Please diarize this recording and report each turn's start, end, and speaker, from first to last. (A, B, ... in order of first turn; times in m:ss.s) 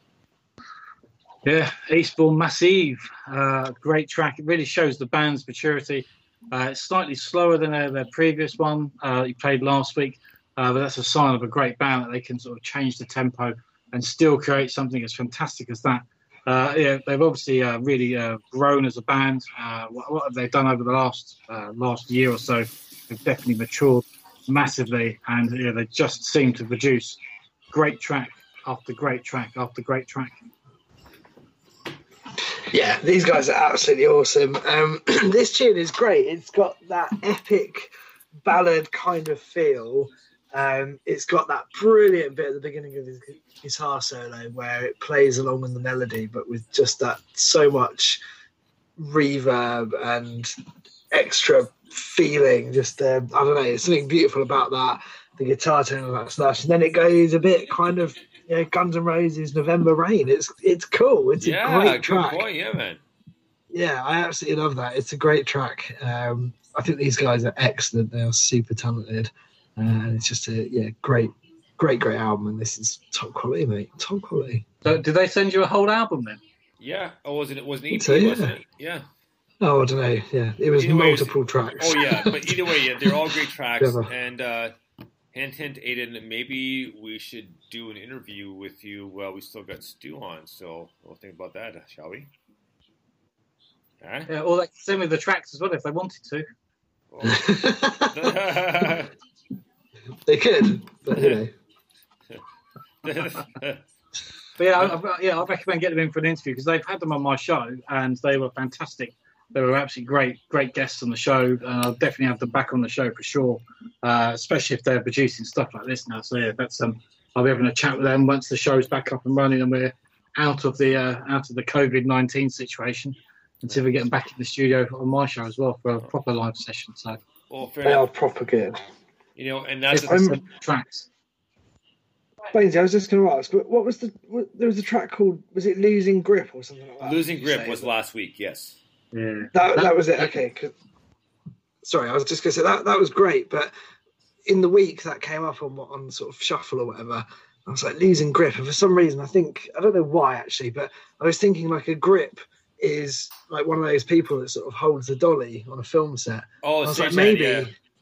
0:01.4-0:27.2 A
0:27.7-0:30.4 A
0:32.7-0:37.9 B
0:38.4-0:48.2 B
0:49.0-0:50.5 B
0:51.1-1:02.5 B
1:01.4-1:03.0 C
1:03.7-1:14.6 B
1:14.8-1:16.4 A
1:16.8-1:19.1 C
1:17.9-1:18.5 B
1:19.6-1:23.2 B
1:20.8-1:24.7 C
1:23.8-1:24.1 B
1:25.3-1:32.3 C
1:34.0-1:34.3 C
1:34.3-1:36.4 A
1:37.1-1:39.1 C
1:37.2-1:39.0 B
1:40.2-1:41.5 B
1:41.1-1:41.4 C
1:43.0-1:43.8 C
1:44.6-2:07.2 A
2:07.5-2:08.1 C
2:07.8-2:08.8 B
2:09.4-2:10.3 C
2:09.9-2:11.1 A
2:10.0-2:10.3 B
2:12.5-2:17.9 B
2:17.0-2:18.8 C
2:19.1-2:20.3 A
2:19.5-2:20.7 B
2:21.8-2:23.7 B
2:24.4-2:37.7 B
2:36.6-2:37.7 C